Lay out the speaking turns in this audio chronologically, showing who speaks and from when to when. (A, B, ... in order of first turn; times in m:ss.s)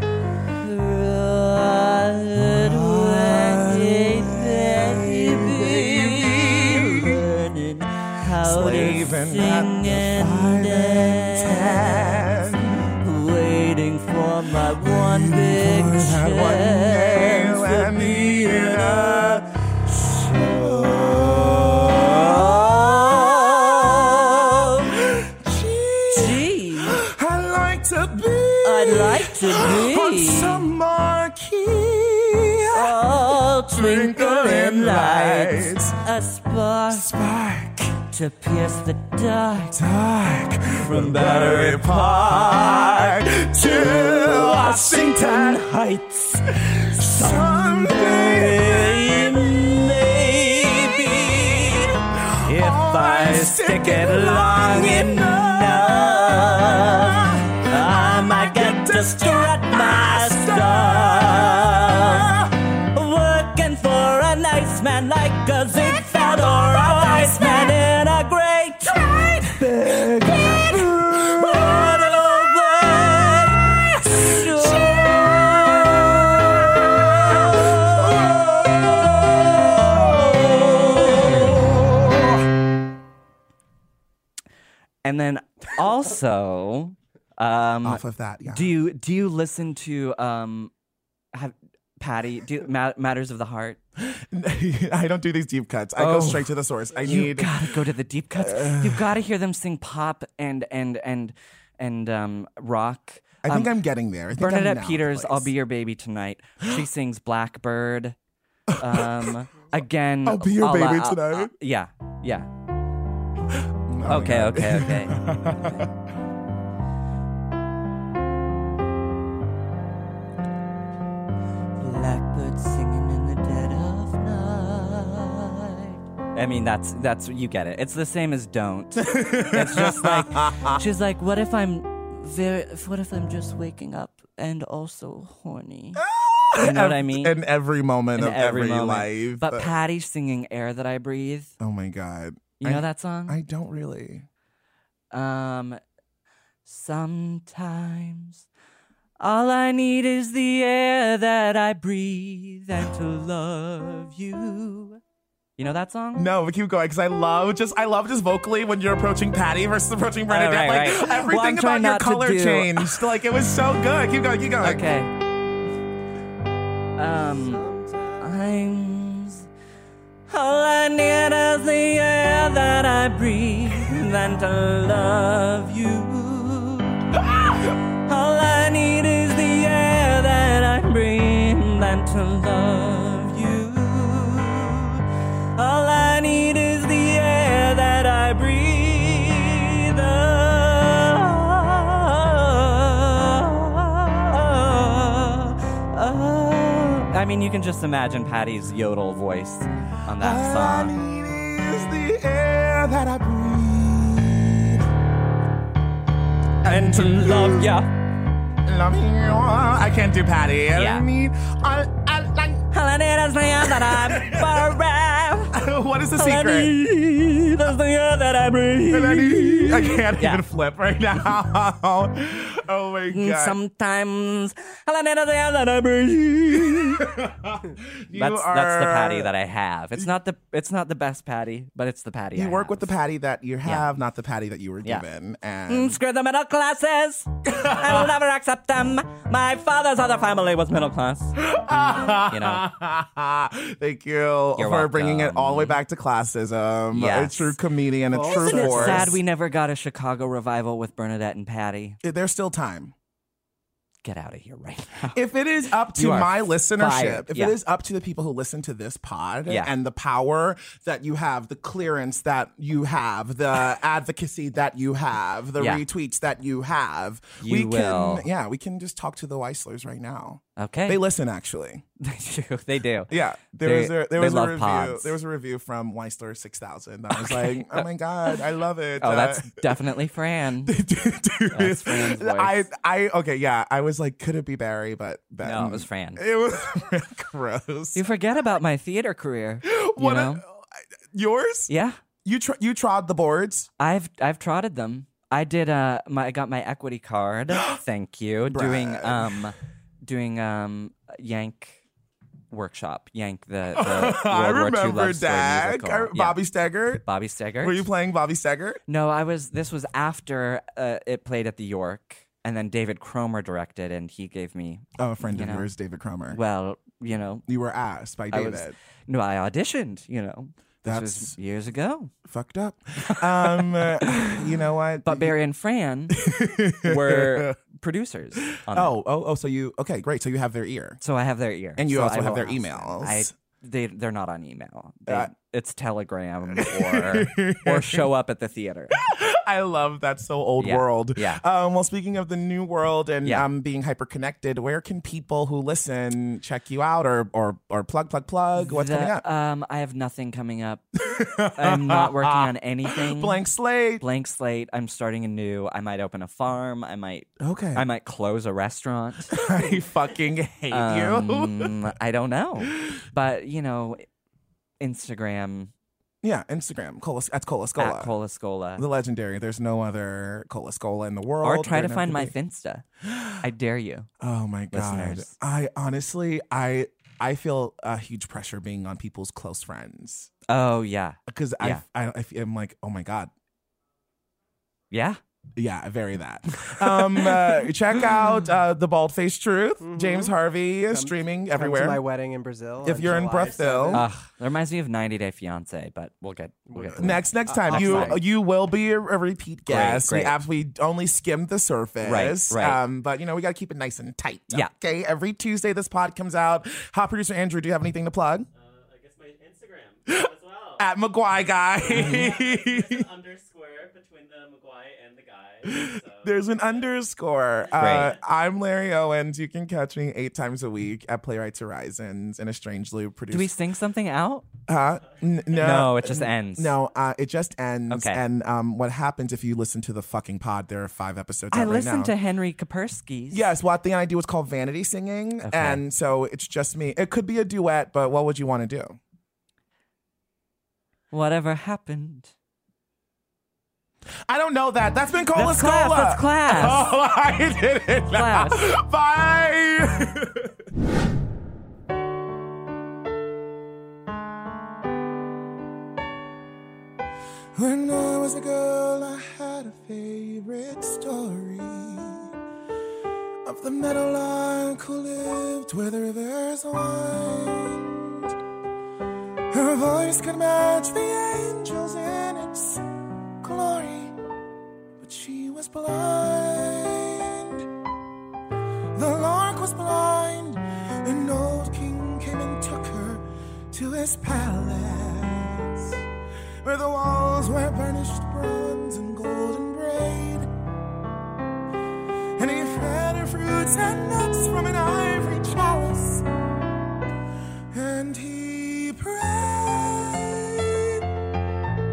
0:00.6-0:12.4 A
0:02.4-0:07.2 B
0:08.4-0:12.9 B
0:12.9-0:25.0 A
0:14.8-0:33.0 B
0:26.1-0:27.0 A
0:28.6-0:30.7 A
0:32.7-0:37.1 A
0:33.7-0:36.0 B
0:36.9-0:38.0 B
0:38.1-0:39.8 A
0:39.7-0:45.6 B
0:40.8-1:09.0 A
0:46.7-0:49.6 B
0:50.9-1:02.6 B
1:05.7-1:07.8 B
1:08.8-1:22.4 B
1:09.6-1:18.4 A
1:19.0-1:21.7 A
1:25.0-1:30.7 A
1:27.8-1:28.7 B
1:31.3-1:33.8 A
1:34.0-1:37.8 B
1:36.0-1:43.7 A
1:38.3-1:39.1 B
1:43.4-1:45.5 B
1:44.3-1:48.2 A
1:48.7-1:51.5 B
1:48.8-1:52.5 A
1:53.5-1:55.9 B
1:54.1-1:55.2 A
2:01.8-2:16.0 A
2:09.0-2:10.8 B
2:16.0-2:19.7 B
2:16.6-2:17.4 A
2:18.2-2:21.5 A
2:21.6-2:24.3 B
2:22.6-2:23.4 A
2:25.1-2:25.8 A
2:26.6-2:28.4 A
2:29.2-2:35.0 A
2:35.6-2:36.3 A
2:36.1-2:44.8 B
2:40.3-2:43.1 A
2:44.6-2:45.1 A
2:47.0-2:47.6 A
2:47.6-2:48.2 C
2:48.2-2:49.5 A
2:50.3-3:20.9 A
3:20.1-3:24.8 B
3:26.6-3:27.9 A
3:26.6-3:27.7 B
3:28.6-3:32.6 B
3:30.7-3:31.0 A
3:32.7-3:35.5 A
3:33.6-3:34.7 B
3:35.5-3:36.7 B
3:36.2-3:40.4 A
3:38.9-3:43.6 B
3:43.1-3:47.3 A
3:46.7-3:49.3 B
3:48.1-3:52.9 A
3:52.3-3:56.0 B
3:55.7-4:01.3 A
3:57.5-3:58.1 B
4:01.4-4:09.2 B
4:02.1-4:02.7 A
4:04.6-4:05.8 A
4:06.9-4:07.5 A
4:08.1-4:09.1 C
4:08.2-4:12.0 A
4:12.0-4:12.9 B
4:14.0-4:15.2 A
4:15.1-4:31.8 B
4:16.0-4:17.5 A
4:25.6-4:25.8 A
4:27.4-4:28.3 A
4:30.6-4:31.0 A
4:32.0-4:35.1 A
4:33.1-4:39.6 B
4:37.1-4:38.4 A
4:39.0-4:40.7 A
4:40.6-4:48.0 B
4:41.5-4:42.7 A
4:45.4-4:46.2 A
4:47.9-4:50.4 A
4:49.6-4:51.7 B
4:51.7-4:52.0 A
4:52.2-4:53.7 B
4:53.8-5:01.8 A
4:58.5-4:59.5 B
5:02.5-5:06.4 A
5:03.7-5:07.0 B
5:07.0-5:07.8 A
5:07.6-5:08.8 B
5:08.9-5:15.7 A
5:15.0-5:16.4 B
5:16.3-5:17.4 A
5:17.5-5:18.8 B
5:18.3-5:22.1 A
5:20.8-5:21.4 B
5:22.3-5:25.3 B
5:23.1-5:24.4 A
5:25.0-5:26.2 A
5:26.1-5:27.6 B
5:26.8-5:28.9 A
5:28.5-5:31.0 B
5:31.0-5:39.0 A
5:31.8-5:33.3 B
5:36.5-5:38.1 B
5:38.9-5:49.2 B
5:40.6-5:41.4 A
5:48.6-5:50.8 A
5:51.0-5:54.0 B
5:51.5-5:53.4 A
5:54.0-5:59.4 A
5:57.4-5:57.8 B
5:59.3-6:01.7 B
6:00.7-6:04.0 A
6:02.6-6:03.0 B
6:04.8-6:05.7 A
6:06.2-6:08.1 B
6:07.8-6:08.8 A
6:08.8-6:12.3 B
6:11.4-6:12.8 A
6:13.0-6:13.4 B
6:13.4-6:14.1 A
6:14.2-6:20.3 B
6:14.7-6:15.3 A
6:20.5-6:21.8 A
6:21.3-6:23.3 B
6:24.9-6:25.2 A
6:25.6-6:32.0 B
6:26.6-6:27.7 A
6:29.8-6:30.3 C
6:30.9-6:34.1 C
6:32.8-6:34.1 B
6:32.9-6:33.9 D
6:33.9-6:38.2 A
6:36.7-6:38.2 C
6:37.0-6:48.5 B
6:39.7-6:40.3 A
6:42.0-6:42.8 A
6:48.5-6:50.9 D
6:50.1-6:53.0 B
6:51.5-6:56.9 D
6:55.6-7:03.5 B
6:57.6-6:58.2 D
6:57.8-6:58.2 A
7:03.3-7:04.4 A
7:04.7-7:12.1 B
7:05.6-7:06.7 A
7:07.9-7:08.2 A
7:11.5-7:13.5 A
7:13.3-7:19.0 B
7:15.4-7:15.8 A
7:21.1-7:22.3 A
7:24.3-7:30.5 B
7:25.3-7:26.8 A
7:28.1-7:28.7 A
7:37.5-7:42.3 B
7:43.4-7:48.3 B
7:49.5-7:52.8 B
7:53.4-7:54.2 B
7:55.0-7:57.7 B
7:58.9-8:06.0 B
8:06.6-8:10.5 B
8:12.4-8:16.2 B
8:17.7-8:21.0 B